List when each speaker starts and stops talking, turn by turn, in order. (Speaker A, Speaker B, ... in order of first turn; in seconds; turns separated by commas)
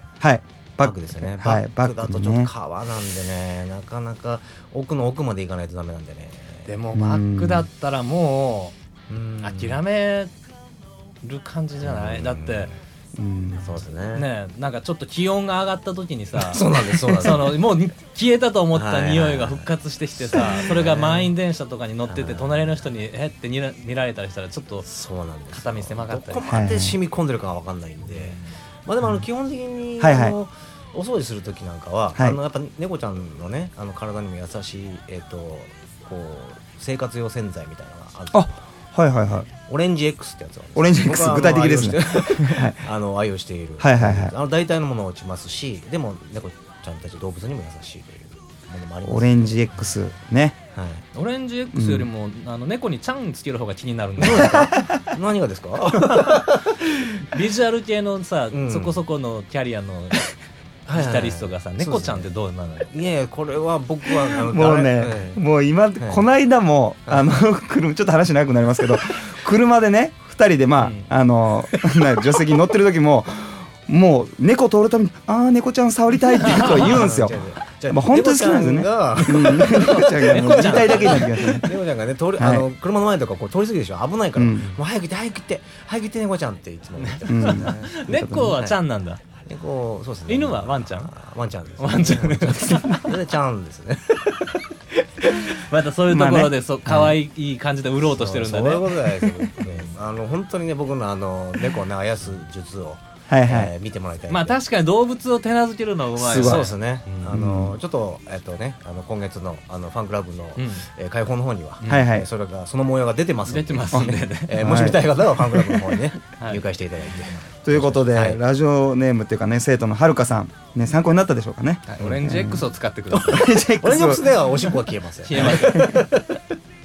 Speaker A: 0.2-2.5, Speaker B: 0.8-6.7, Speaker C: 6.7-8.7, Speaker A: 6.9-7.7, Speaker B: 9.1-9.8, Speaker C: 9.4-10.3, Speaker C: 11.2-12.7, Speaker B: 11.8-12.8, Speaker A: 13.2-13.8, Speaker B: 13.6-14.3, Speaker C: 14.1-24.9, Speaker B: 16.4-17.6, Speaker B: 18.7-19.7, Speaker B: 20.2-21.3, Speaker B: 22.1-22.8, Speaker B: 24.8-38.5, Speaker C: 25.5-26.6, Speaker A: 26.4-27.0, Speaker C: 28.1-28.4, Speaker A: 30.0-30.4, Speaker A: 38.3-39.5, Speaker B: 39.6-49.9, Speaker A: 40.7-42.8, Speaker A: 43.8-44.3, Speaker A: 49.0-50.6, Speaker B: 50.7-51.0, Speaker C: 51.1-54.7, Speaker A: 51.7-52.1, Speaker B: 54.2-56.9, Speaker C: 56.0-56.4, Speaker C: 57.3-60.3, Speaker B: 58.5-59.0, Speaker B: 60.9-62.3, Speaker C: 60.9-62.9, Speaker B: 62.9-65.4, Speaker A: 64.5-77.4, Speaker C: 70.8-71.1, Speaker B: 76.5-88.7, Speaker C: 76.5-76.9, Speaker A: 77.9-81.8, Speaker C: 79.1-81.5, Speaker A: 82.4-82.6, Speaker A: 84.3-84.8, Speaker C: 87.0-89.2, Speaker A: 87.3-88.6, Speaker B: 89.4-94.4, Speaker C: 90.3-91.1, Speaker C: 91.8-93.2, Speaker C: 95.2-99.9, Speaker A: 96.0-97.2, Speaker B: 98.1-104.6, Speaker A: 103.3-103.7, Speaker C: 104.3-107.3, Speaker A: 106.2-106.7, Speaker B: 106.3-118.4, Speaker A: 107.3-107.8, Speaker C: 110.5-110.8, Speaker A: 111.8-112.3, Speaker C: 113.5-114.9, Speaker A: 113.9-115.0, Speaker C: 116.4-116.6, Speaker A: 117.6-122.6, Speaker C: 121.9-123.6, Speaker B: 122.0-122.3, Speaker B: 123.1-126.2, Speaker A: 123.1-124.3, Speaker C: 125.2-126.0, Speaker A: 125.4-126.0